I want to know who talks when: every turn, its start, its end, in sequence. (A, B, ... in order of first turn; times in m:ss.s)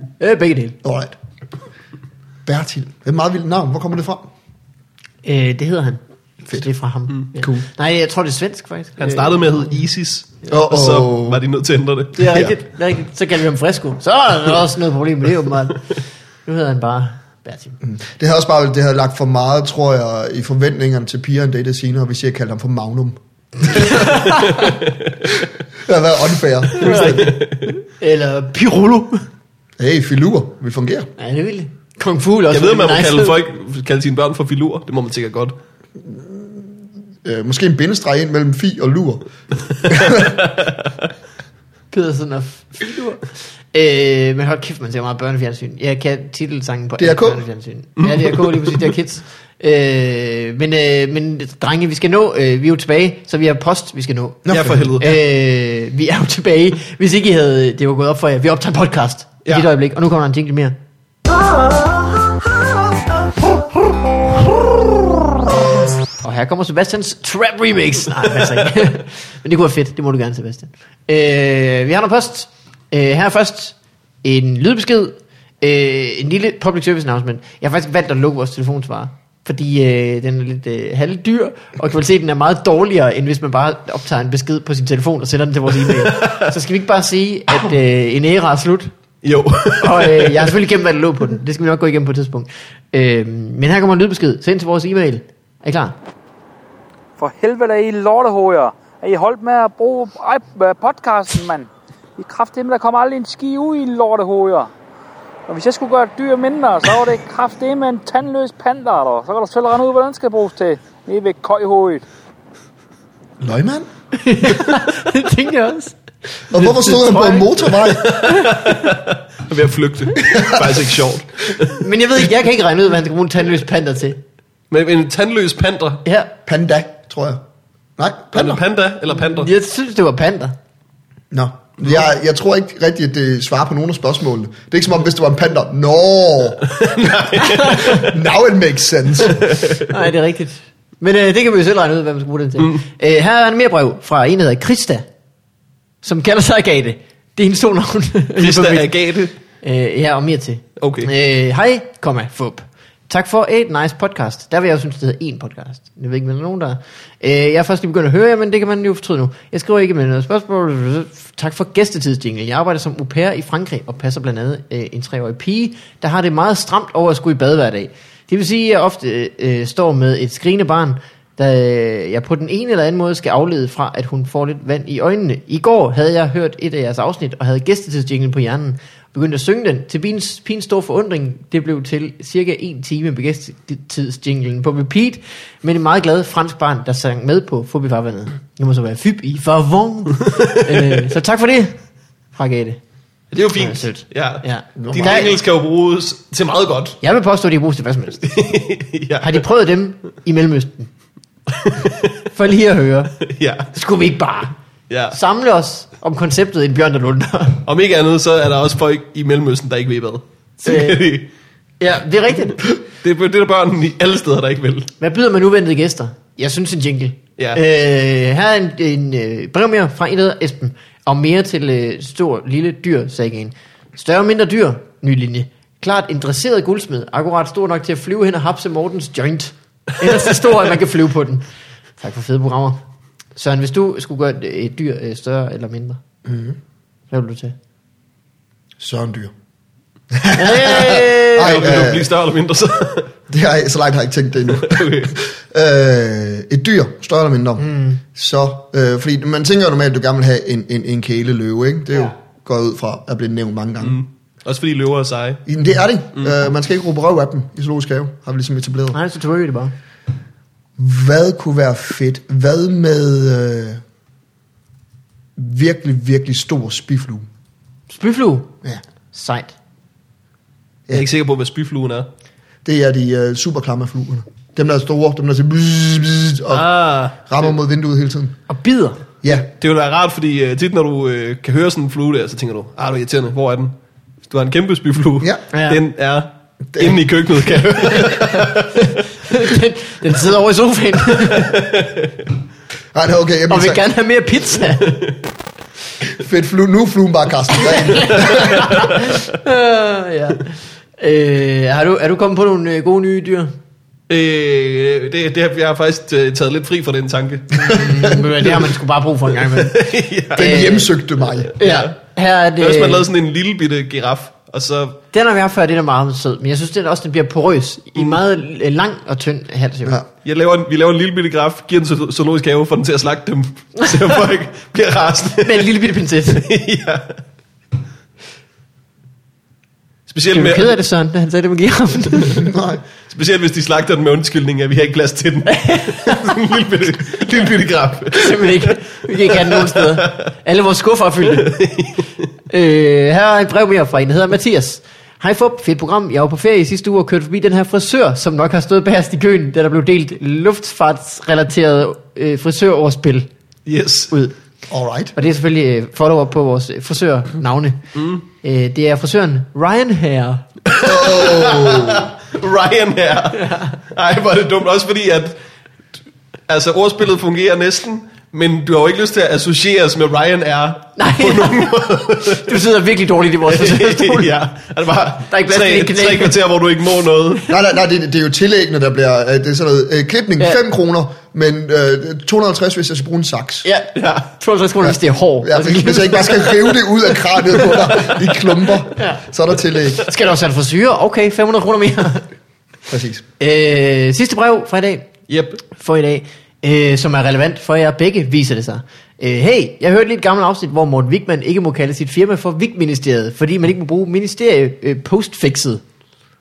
0:00.2-0:00.8 A
0:00.8-0:01.2 B
0:02.4-0:04.3 B
0:05.2-0:09.8 A
0:07.4-0:07.6 B
0:09.0-0:12.6 C
0:10.5-0:11.4 B
0:12.2-0:15.8 A
0:16.4-0:17.8 A
0:17.8-0:24.1 B
0:23.8-0:24.6 A
0:24.5-0:25.1 C
0:25.8-0:27.3 B
0:26.8-0:29.2 A
0:26.8-0:27.7 C
0:29.8-0:31.1 B
0:31.2-0:33.4 A
0:32.5-0:35.5 C
0:36.0-0:36.6 B
0:37.2-0:39.3 B
0:39.9-0:40.3 B
0:39.9-0:40.7 C
0:41.9-1:00.8 A
0:47.0-0:47.4 B
0:48.0-0:48.9 C
0:54.4-0:55.0 B
0:54.5-0:55.2 C
1:06.2-1:28.9 A
1:25.9-1:26.4 C
1:29.2-1:30.5 C
1:29.8-1:36.0 A
1:37.2-1:44.7 D
1:45.5-1:52.0 D
1:53.4-1:53.9 B
1:54.2-1:56.0 A
1:56.5-1:58.8 A
1:56.5-1:58.2 B
1:58.0-2:01.8 C
2:00.2-2:00.8 B
2:01.7-2:04.2 A
2:04.7-2:06.0 C
2:06.0-2:06.3 A
2:06.4-2:07.4 B
2:08.0-2:08.6 B
2:08.3-2:09.5 C
2:09.1-2:10.5 A
2:11.3-2:16.7 B
2:16.6-2:18.1 C
2:17.5-2:18.0 A
2:17.7-2:19.4 B
2:19.3-2:19.9 C
2:19.9-2:25.0 A
2:26.0-3:11.8 A
2:28.4-2:29.3 C
2:30.8-2:31.1 C
3:10.3-3:10.9 C
3:12.3-3:12.8 A
3:13.3-3:17.0 C
3:13.5-3:15.3 A
3:14.8-3:15.3 B
3:17.0-3:18.4 A
3:18.2-3:19.4 C
3:19.2-3:20.9 A
3:21.6-3:21.9 C
3:22.2-3:23.1 A
3:23.2-3:23.7 C
3:23.7-3:24.5 A
3:24.9-3:25.2 C
3:25.1-3:27.6 A
3:27.6-3:31.3 C
3:30.6-3:31.0 A
3:31.8-3:32.6 A
3:32.9-3:34.9 C
3:35.0-3:51.4 A
3:52.0-3:52.8 A
3:53.3-3:56.0 A
3:56.2-3:56.6 B
3:57.1-3:57.5 A
3:58.8-3:59.3 B
4:00.1-4:02.1 B
4:00.3-4:01.7 A
4:01.4-4:03.1 C
4:03.3-4:14.0 B
4:04.5-4:05.1 C
4:07.6-4:08.0 A
4:13.8-4:15.4 C
4:15.4-4:19.0 B
4:18.9-4:19.7 A
4:20.8-4:23.8 B
4:25.4-4:27.3 B
4:27.9-4:28.5 A
4:29.1-4:29.6 A
4:30.9-4:32.1 C
4:32.6-4:38.4 B
4:36.6-4:36.9 C
4:38.5-4:39.0 A
4:39.3-4:43.7 C
4:44.3-4:48.8 C
4:45.5-4:45.8 A
4:46.7-4:47.0 B
4:47.9-4:51.7 A
4:51.2-4:52.1 C
4:52.9-4:53.8 B
4:53.5-4:55.0 A
4:56.0-4:58.6 B
4:57.6-5:03.5 A
4:58.1-4:59.0 C
5:04.1-5:07.7 C
5:07.6-5:10.9 A
5:09.5-5:10.5 C
5:10.3-5:11.5 B
5:11.4-5:11.9 C
5:11.6-5:13.1 A
5:12.6-5:15.0 C
5:15.1-5:20.0 A
5:20.2-5:25.7 C
5:23.8-5:24.2 A
5:25.4-5:26.4 A
5:26.3-5:27.2 C
5:30.1-5:30.8 C
5:30.3-5:32.5 A
5:32.3-5:32.8 B
5:33.1-5:38.7 C
5:35.5-5:36.4 A
5:38.1-5:41.6 A
5:39.3-5:40.2 C
5:41.3-5:42.0 C
5:42.5-5:53.3 A
5:53.6-5:54.1 C
5:54.7-5:55.1 B
5:55.2-6:00.4 A
5:58.0-5:58.2 C
6:00.7-6:05.4 C
6:00.8-6:02.1 B
6:03.3-6:03.7 A
6:06.5-6:12.6 C
6:11.0-6:14.4 A
6:13.5-6:17.4 C
6:15.3-6:16.4 A
6:17.5-6:23.7 B
6:23.6-6:26.6 A
6:23.9-6:24.3 C
6:24.8-6:30.1 B
6:28.9-6:29.2 A
6:30.0-6:32.3 A
6:32.9-6:33.2 B
6:33.4-6:35.1 A
6:35.3-6:35.6 C
6:35.7-6:45.8 A